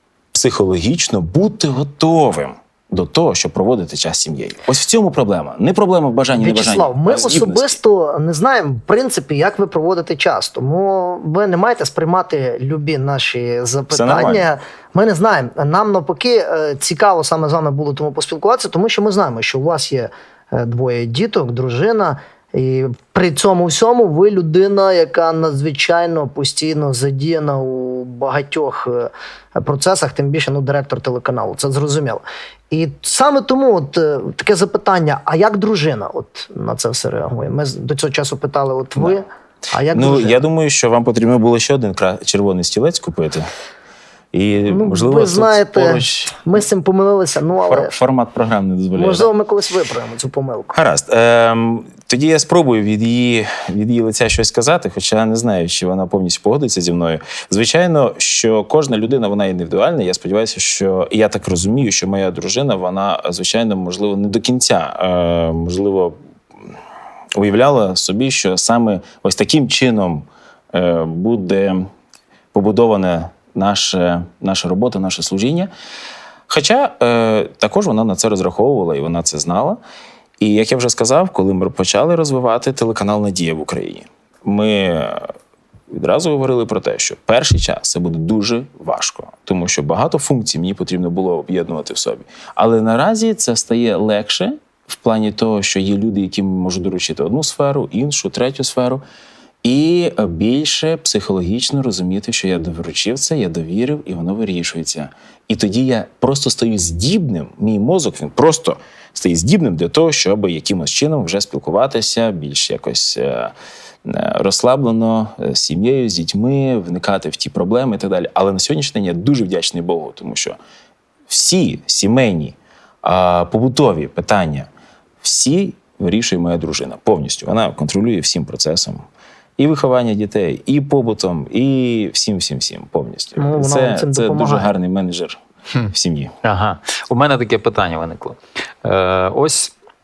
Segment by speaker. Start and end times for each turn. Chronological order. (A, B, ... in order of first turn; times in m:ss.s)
0:00.3-0:07.8 A
0:06.4-0:40.4 B
0:13.9-0:14.5 A
0:39.9-0:43.5 A
0:44.3-0:46.4 A
0:44.7-0:47.9 B
0:47.7-0:49.3 A
0:48.9-0:50.7 B
0:50.7-1:06.2 A
1:07.3-1:11.9 A
1:12.5-1:15.7 A
1:16.5-1:19.8 A
1:20.4-1:25.3 A
1:25.9-1:39.0 A
1:39.6-1:53.5 A
1:54.0-2:00.6 A
2:01.3-2:04.7 A
2:05.2-2:09.0 A
2:09.6-2:16.3 A
2:13.4-2:14.7 B
2:16.4-2:19.7 C